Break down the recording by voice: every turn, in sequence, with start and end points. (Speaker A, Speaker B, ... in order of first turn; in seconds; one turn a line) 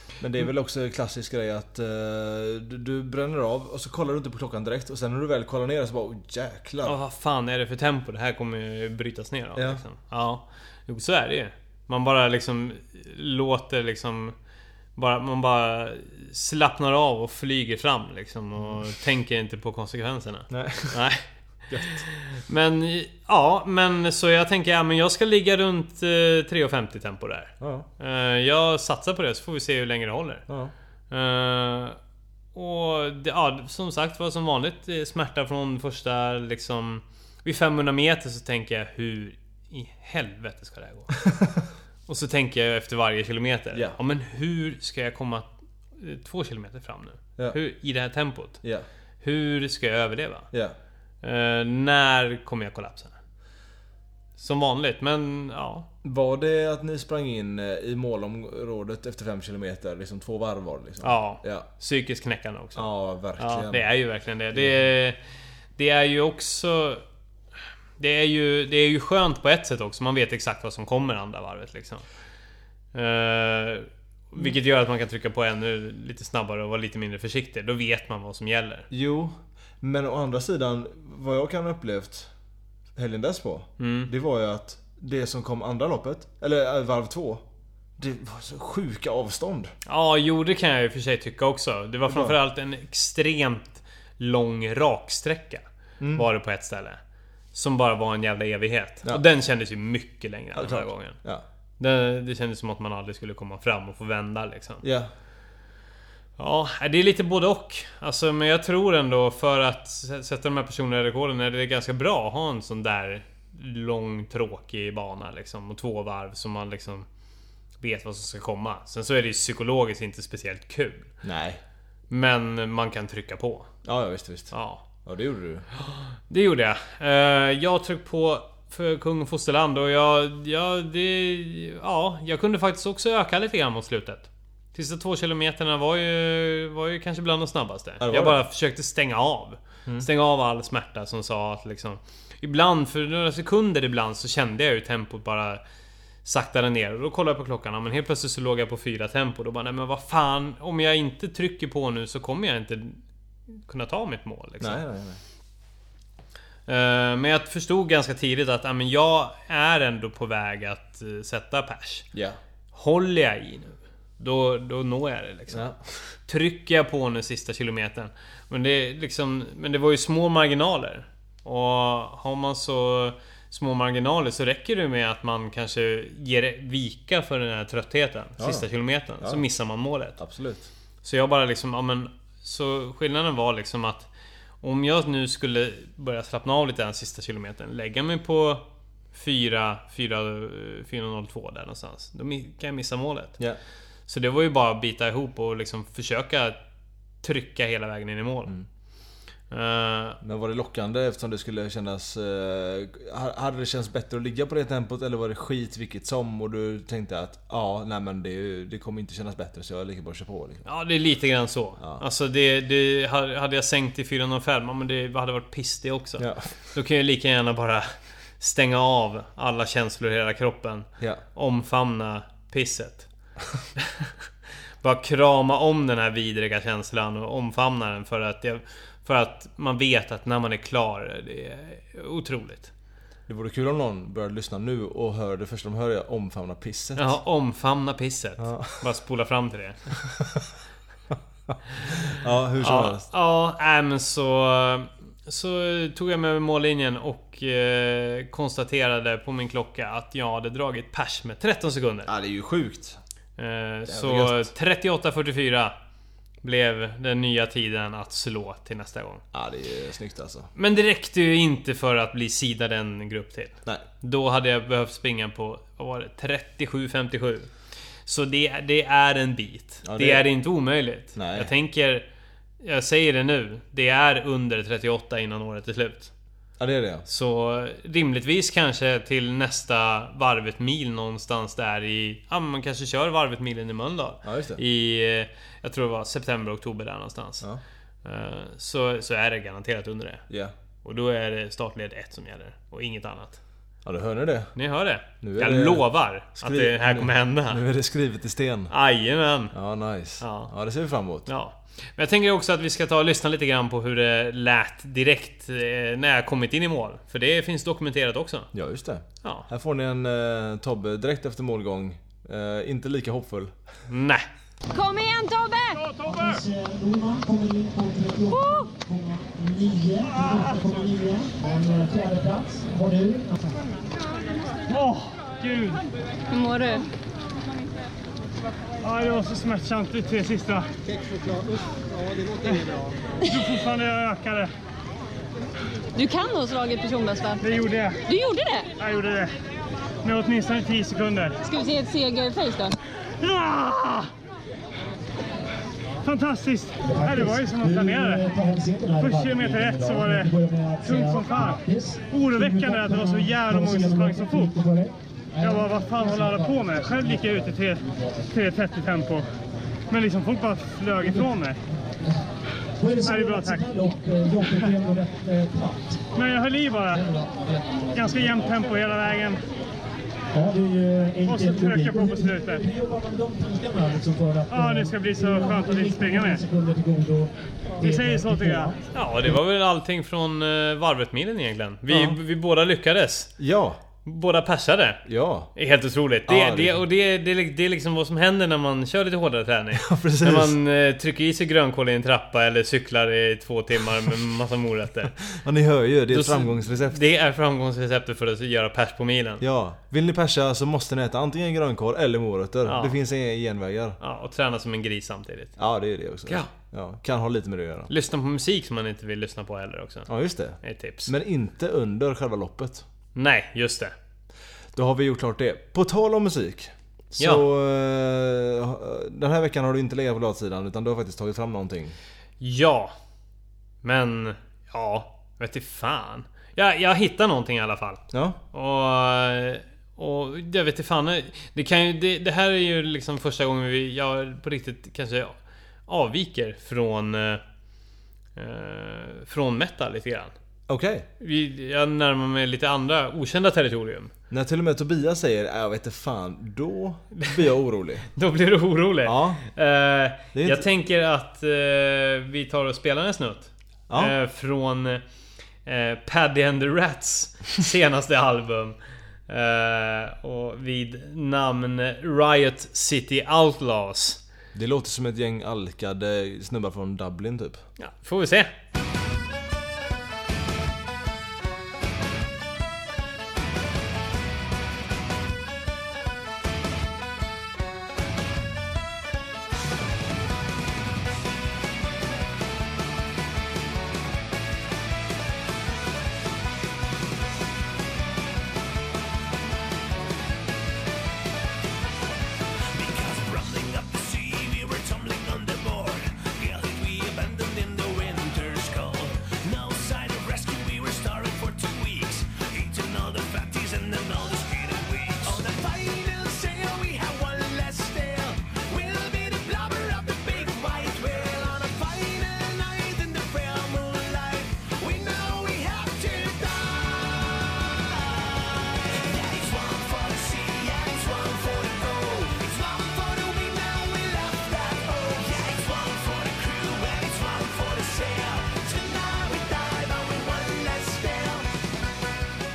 Speaker A: 0.2-7.0
Speaker B: 6.8-14.3
Speaker A: 9.6-9.8
Speaker B: 14.9-21.2
Speaker A: 20.5-21.1
Speaker A: 21.7-22.1
Speaker B: 21.8-30.4
Speaker A: 27.6-27.9
Speaker A: 30.5-30.7
Speaker B: 31.1-32.0
Speaker B: 32.5-41.1
Speaker A: 41.3-41.7
Speaker B: 42.1-48.6
Speaker B: 49.2-50.5
Speaker B: 51.2-53.1
Speaker B: 54.4-55.9
Speaker A: 56.0-61.7
Speaker B: 61.0-65.2
Speaker A: 62.7-63.9
Speaker A: 64.5-64.8
Speaker B: 65.8-67.0
Speaker B: 68.0-72.0
Speaker B: 72.9-78.9
Speaker A: 78.9-82.3
Speaker A: 83.0-87.4
Speaker B: 83.8-84.1
Speaker A: 88.0-89.7
Speaker B: 89.8-97.0
Speaker A: 92.1-92.3
Speaker A: 96.0-96.2
Speaker B: 97.5-101.2
Speaker A: 100.5-101.4
Speaker B: 101.8-104.8
Speaker A: 104.8-105.1
Speaker B: 106.4-117.0
Speaker B: 117.8-121.1
Speaker A: 121.2-121.6
Speaker B: 122.1-123.7
Speaker A: 123.8-125.7
Speaker B: 124.5-124.8
Speaker B: 125.8-145.6
Speaker A: 138.0-138.4
Speaker B: 146.2-153.0
Speaker B: 153.5-154.8
Speaker A: 154.6-155.2
Speaker B: 156.7-162.1
Speaker A: 162.1-162.4
Speaker B: 162.7-165.7
Speaker A: 165.5-165.8
Speaker B: 166.3-180.2
Speaker A: 178.4-178.7
Speaker A: 179.2-179.4
Speaker A: 180.2-180.7
Speaker B: 181.0-184.1
Speaker B: 184.6-193.4
Speaker B: 194.1-196.6
Speaker B: 197.2-198.5
Speaker B: 199.5-200.2
Speaker A: 200.2-210.6
Speaker B: 210.6-223.1
Speaker A: 216.2-216.5
Speaker B: 223.8-224.1
Speaker B: 224.8-232.7
Speaker A: 233.3-237.2
Speaker B: 237.0-239.9
Speaker A: 238.4-238.8
Speaker A: 240.2-240.5
Speaker A: 241.1-243.1
Speaker B: 242.6-252.1
Speaker A: 252.1-253.0
Speaker B: 253.4-255.7
Speaker A: 253.9-254.5
Speaker B: 256.4-259.2
Speaker A: 259.3-260.5
Speaker B: 260.6-267.5
Speaker B: 268.1-272.1
Speaker A: 269.8-270.3
Speaker A: 271.1-271.5
Speaker B: 272.6-276.1
Speaker A: 276.6-277.1
Speaker B: 277.1-287.4
Speaker A: 284.2-284.6
Speaker B: 288.0-290.2
Speaker B: 290.8-293.4
Speaker A: 293.8-294.5
Speaker B: 294.6-297.6
Speaker A: 295.2-298.7
Speaker B: 298.7-299.5
Speaker A: 299.5-301.3
Speaker B: 300.2-300.5
Speaker B: 301.3-308.5
Speaker A: 308.5-313.6
Speaker B: 313.9-314.2
Speaker C: 314.7-315.9
Speaker D: 316.0-323.5
Speaker C: 318.3-318.7
Speaker E: 324.7-325.8
Speaker C: 326.3-326.9
Speaker E: 328.8-330.7
Speaker E: 332.4-334.5
Speaker C: 335.9-338.7
Speaker E: 337.4-338.0
Speaker E: 338.8-339.3
Speaker E: 340.0-341.4
Speaker C: 341.4-342.7
Speaker E: 343.2-344.1
Speaker E: 346.0-348.3
Speaker D: 346.8-357.5
Speaker E: 349.0-354.5
Speaker E: 355.4-359.2
Speaker E: 359.9-361.6
Speaker D: 361.0-361.3
Speaker D: 362.8-366.1
Speaker E: 363.0-363.7
Speaker E: 366.1-367.2
Speaker E: 367.9-369.4
Speaker D: 370.3-378.8
Speaker E: 371.2-372.6
Speaker E: 374.5-376.4
Speaker E: 377.8-378.7
Speaker B: 378.9-383.3
Speaker A: 381.9-382.2
Speaker A: 383.4-383.8
Speaker B: 384.0-385.0
Speaker A: 385.0-385.5
Speaker B: 385.5-395.2
Speaker A: 386.2-386.8
Speaker A: 389.8-390.5
Speaker A: 395.3-397.0
Speaker B: 396.1-399.4
Speaker A: 399.4-404.0
Speaker B: 402.6-402.9
Speaker B: 404.0-405.6
Speaker A: 405.6-407.9
Speaker B: 407.9-410.1
Speaker A: 410.1-412.8
Speaker B: 410.6-411.1
Speaker B: 413.1-413.9
Speaker A: 414.7-421.9
Speaker B: 417.2-417.4
Speaker B: 422.4-422.9
Speaker B: 423.8-435.3
Speaker A: 428.1-428.4
Speaker B: 435.9-437.4
Speaker B: 438.4-440.3
Speaker A: 440.7-441.1
Speaker B: 441.2-444.1
Speaker A: 444.3-448.1
Speaker B: 448.1-455.0
Speaker A: 449.0-449.4
Speaker A: 450.3-450.6
Speaker A: 453.9-454.1
Speaker B: 455.6-464.2
Speaker A: 464.5-467.6
Speaker B: 467.8-468.5
Speaker F: 492.7-531.5